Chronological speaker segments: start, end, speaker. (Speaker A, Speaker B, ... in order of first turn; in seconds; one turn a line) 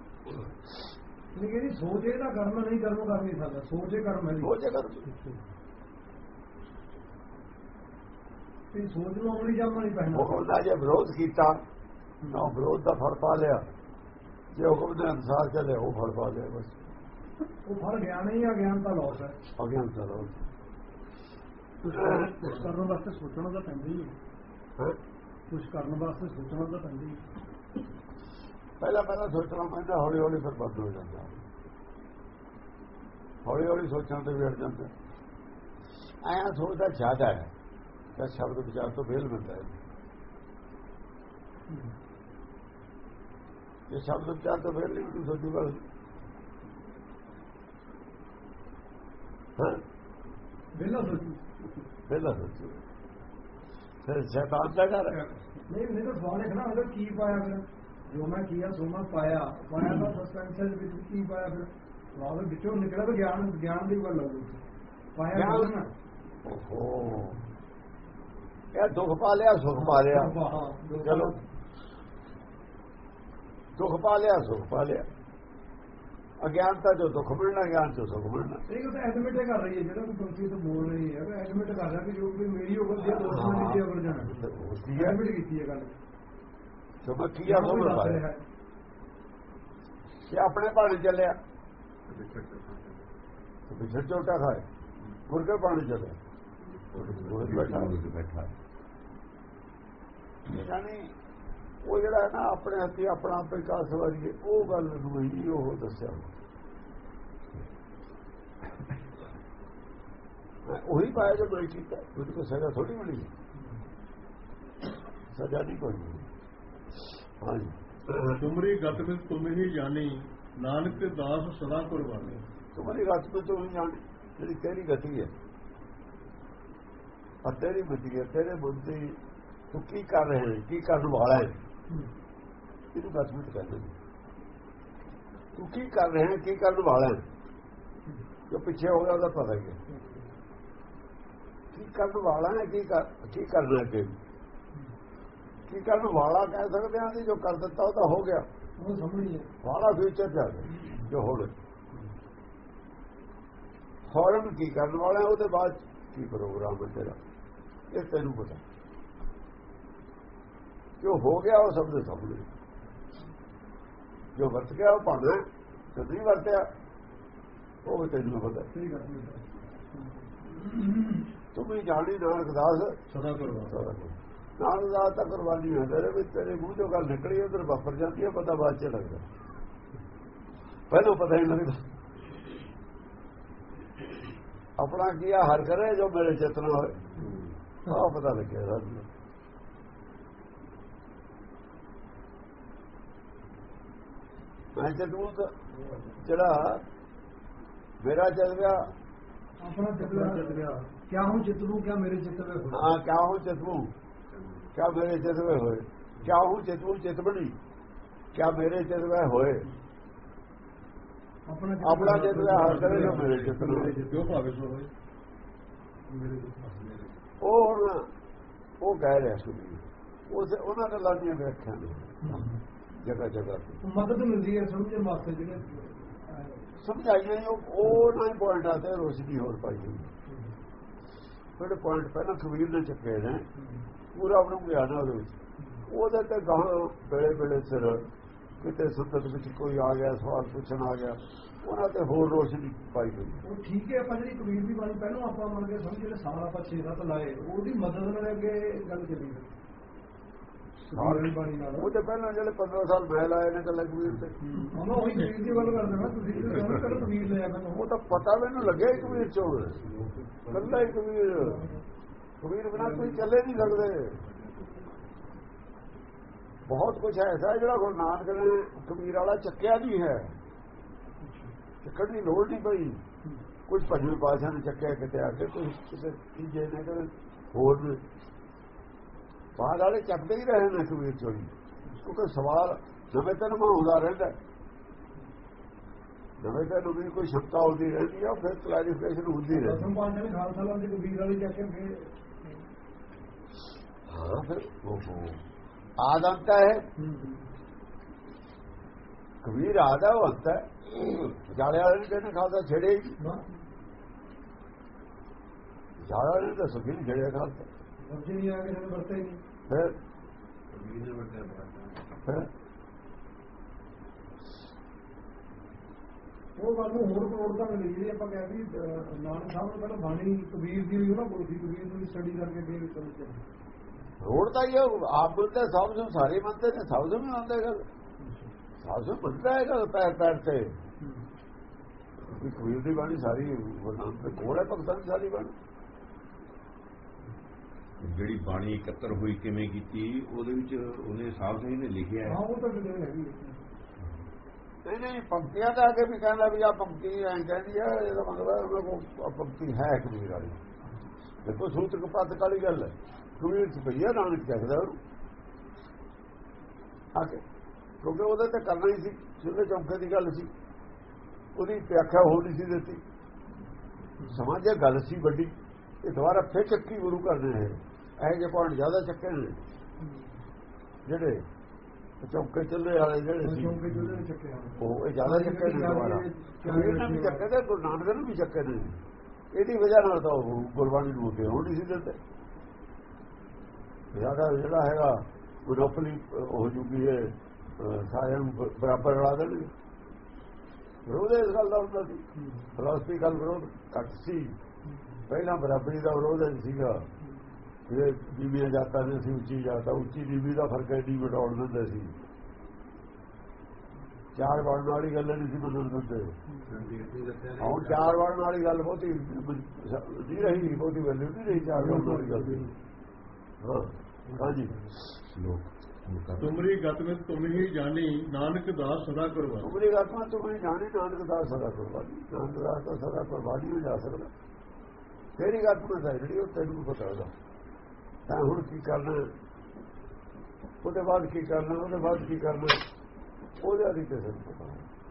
Speaker A: 1.3-4.5
Speaker B: 4.4-5.1
Speaker A: 5.1-5.4
Speaker A: 8.7-10.5
Speaker B: 10.1-11.6
Speaker A: 12.2-12.6
Speaker B: 12.3-13.6
Speaker B: 14.6-16.7
Speaker A: 17.6-19.4
Speaker B: 19.6-20.4
Speaker A: 21.8-24.1
Speaker B: 21.9-22.5
Speaker A: 25.5-27.2
Speaker B: 28.8-31.3
Speaker B: 33.5-34.9
Speaker B: 36.2-37.5
Speaker B: 38.2-39.7
Speaker B: 43.9-45.8
Speaker B: 49.6-49.8
Speaker A: 50.7-51.4
Speaker B: 52.1-52.8
Speaker B: 54.0-55.2
Speaker A: 55.1-64.6
Speaker A: 65.2-65.9
Speaker B: 65.3-65.7
Speaker B: 66.4-67.4
Speaker B: 68.7-70.3
Speaker A: 69.7-71.4
Speaker B: 71.0-71.3
Speaker B: 73.8-75.1
Speaker B: 76.4-78.6
Speaker A: 78.7-86.0
Speaker B: 83.1-85.2
Speaker B: 87.0-88.2
Speaker A: 87.5-88.4
Speaker B: 90.3-91.4
Speaker C: 92.1-93.1
Speaker B: 93.7-94.6
Speaker B: 95.3-96.2
Speaker C: 96.6-97.0
Speaker D: 97.0-98.5
Speaker B: 97.0-97.9
Speaker B: 100.5-101.1
Speaker B: 101.8-106.3
Speaker B: 110.7-113.3
Speaker B: 115.3-116.3
Speaker B: 117.4-118.5
Speaker E: 118.4-122.4
Speaker B: 122.8-125.3
Speaker B: 127.4-129.2
Speaker B: 129.7-131.6
Speaker B: 132.9-133.9
Speaker B: 135.6-137.2
Speaker B: 138.5-139.8
Speaker A: 139.9-140.3
Speaker B: 141.7-144.1
Speaker B: 145.7-148.5
Speaker A: 148.8-149.5
Speaker B: 149.6-151.5
Speaker B: 154.1-157.2
Speaker B: 157.9-158.6
Speaker B: 161.0-162.5
Speaker B: 164.3-166.7
Speaker B: 167.8-168.7
Speaker A: 168.7-169.4
Speaker A: 170.0-171.1
Speaker B: 171.5-173.0
Speaker E: 173.1-173.8
Speaker B: 173.7-179.2
Speaker B: 180.9-181.8
Speaker B: 184.8-186.9
Speaker B: 187.9-189.1
Speaker B: 194.8-195.5
Speaker B: 196.2-196.8
Speaker B: 198.0-198.9
Speaker A: 199.6-203.0
Speaker E: 200.0-200.7
Speaker B: 202.7-203.9
Speaker C: 204.3-204.7
Speaker B: 204.8-207.6
Speaker B: 208.3-209.7
Speaker A: 211.5-214.3
Speaker B: 211.8-214.0
Speaker E: 212.5-214.9
Speaker A: 216.1-216.7
Speaker C: 216.7-217.1
Speaker B: 217.4-218.1
Speaker B: 218.8-222.5
Speaker A: 222.2-222.6
Speaker B: 223.0-223.8
Speaker A: 223.8-226.7
Speaker B: 226.8-230.1
Speaker A: 230.3-230.6
Speaker B: 231.6-233.5
Speaker A: 233.6-233.9
Speaker B: 234.1-238.1
Speaker A: 235.6-235.8
Speaker B: 238.6-243.4
Speaker A: 243.4-249.5
Speaker A: 250.9-251.9
Speaker B: 250.9-254.4
Speaker E: 254.4-255.3
Speaker A: 254.5-257.8
Speaker D: 256.5-257.0
Speaker B: 257.7-259.8
Speaker D: 258.8-260.8
Speaker B: 260.5-261.6
Speaker A: 261.4-261.8
Speaker B: 262.4-264.2
Speaker A: 262.8-263.3
Speaker C: 264.2-265.0
Speaker B: 266.7-270.4
Speaker A: 271.2-271.5
Speaker B: 271.8-273.0
Speaker B: 273.7-278.0
Speaker B: 279.6-284.4
Speaker B: 286.4-289.9
Speaker A: 289.5-292.5
Speaker B: 294.1-295.4
Speaker B: 296.0-296.9
Speaker A: 297.0-297.5
Speaker B: 299.4-303.2
Speaker A: 303.2-303.5
Speaker B: 306.0-307.7
Speaker A: 308.0-309.4
Speaker B: 309.7-309.9
Speaker C: 310.7-312.0
Speaker A: 316.6-323.4
Speaker B: 324.2-327.8
Speaker A: 328.2-328.5
Speaker B: 328.8-330.7
Speaker A: 331.0-331.3
Speaker B: 332.2-335.5
Speaker D: 338.0-342.4
Speaker A: 342.2-343.6
Speaker B: 344.9-350.6
Speaker B: 351.4-355.0
Speaker B: 357.1-357.4
Speaker B: 358.0-360.5
Speaker B: 361.6-363.0
Speaker A: 364.2-364.5
Speaker B: 364.3-365.5
Speaker B: 366.0-369.6
Speaker A: 370.0-370.3
Speaker B: 371.1-371.4
Speaker B: 372.2-373.8
Speaker A: 373.4-377.5
Speaker B: 374.8-379.0
Speaker B: 379.5-382.2
Speaker B: 384.1-389.7
Speaker B: 391.1-392.2
Speaker A: 392.4-392.7
Speaker B: 392.8-394.6
Speaker A: 394.9-395.2
Speaker B: 395.3-397.1
Speaker B: 397.9-402.1
Speaker B: 404.4-406.3
Speaker A: 406.5-406.8
Speaker C: 406.7-407.6
Speaker D: 406.9-408.1
Speaker B: 407.6-412.7
Speaker A: 410.4-410.8
Speaker A: 411.5-412.8
Speaker B: 413.6-414.8
Speaker A: 414.3-414.8
Speaker D: 415.3-416.6
Speaker E: 416.4-419.7
Speaker B: 419.6-424.3
Speaker B: 425.4-427.3
Speaker B: 428.3-429.3
Speaker B: 430.8-432.8
Speaker B: 433.6-434.9